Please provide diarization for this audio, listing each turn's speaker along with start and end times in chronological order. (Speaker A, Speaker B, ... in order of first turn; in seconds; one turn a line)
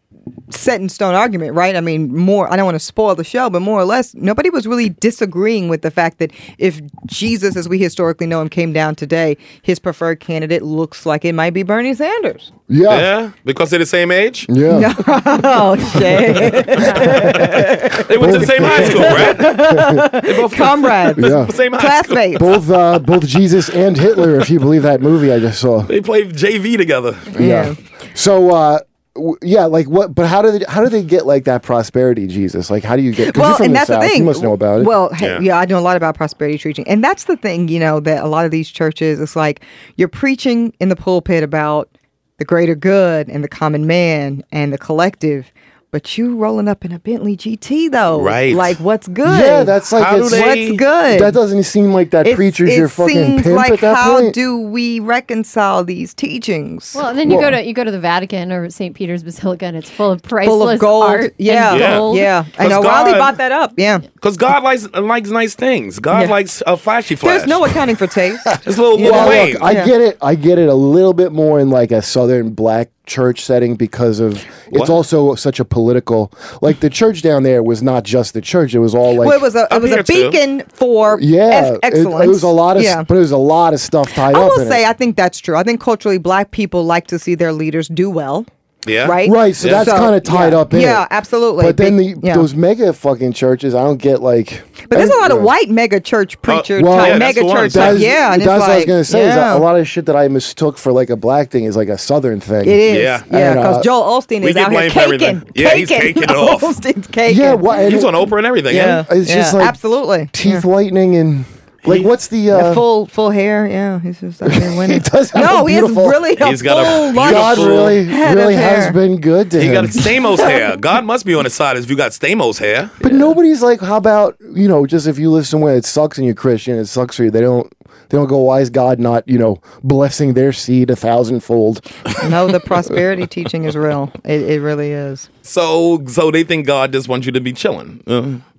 Speaker A: 0.5-12.5
Speaker B: 12.7-13.1
Speaker C: 12.9-14.5
Speaker B: 14.5-14.9
Speaker A: 14.7-22.5
Speaker B: 16.5-17.3
Speaker C: 16.9-22.6
Speaker B: 18.1-20.1
Speaker B: 21.1-21.5
Speaker B: 22.3-25.9
Speaker C: 25.9-27.4
Speaker B: 27.3-34.9
Speaker A: 27.3-27.8
Speaker A: 33.2-49.8
Speaker C: 48.1-48.8
Speaker B: 49.2-54.4
Speaker C: 50.0-50.8
Speaker A: 50.3-51.4
Speaker A: 52.2-57.0
Speaker D: 56.9-62.3
Speaker B: 57.2-57.6
Speaker A: 60.4-64.0
Speaker C: 61.7-63.4
Speaker C: 64.2-67.7
Speaker A: 67.2-69.9
Speaker C: 68.6-69.7
Speaker B: 68.9-79.5
Speaker C: 74.7-75.0
Speaker A: 79.2-83.1
Speaker C: 79.7-80.4
Speaker B: 81.1-84.8
Speaker A: 84.3-88.5
Speaker C: 88.8-89.9
Speaker A: 89.0-92.5
Speaker B: 89.2-91.0
Speaker B: 91.6-95.5
Speaker A: 94.9-99.7
Speaker C: 96.5-98.1
Speaker B: 96.8-103.9
Speaker A: 102.6-107.8
Speaker C: 102.9-103.2
Speaker C: 104.4-106.8
Speaker B: 107.2-108.3
Speaker C: 107.8-109.0
Speaker A: 108.7-110.6
Speaker B: 108.8-109.8
Speaker B: 110.3-112.8
Speaker A: 112.5-119.0
Speaker B: 114.4-116.2
Speaker C: 116.4-118.0
Speaker B: 117.1-120.1
Speaker C: 119.6-123.3
Speaker B: 123.0-131.8
Speaker A: 132.2-135.3
Speaker C: 135.4-138.4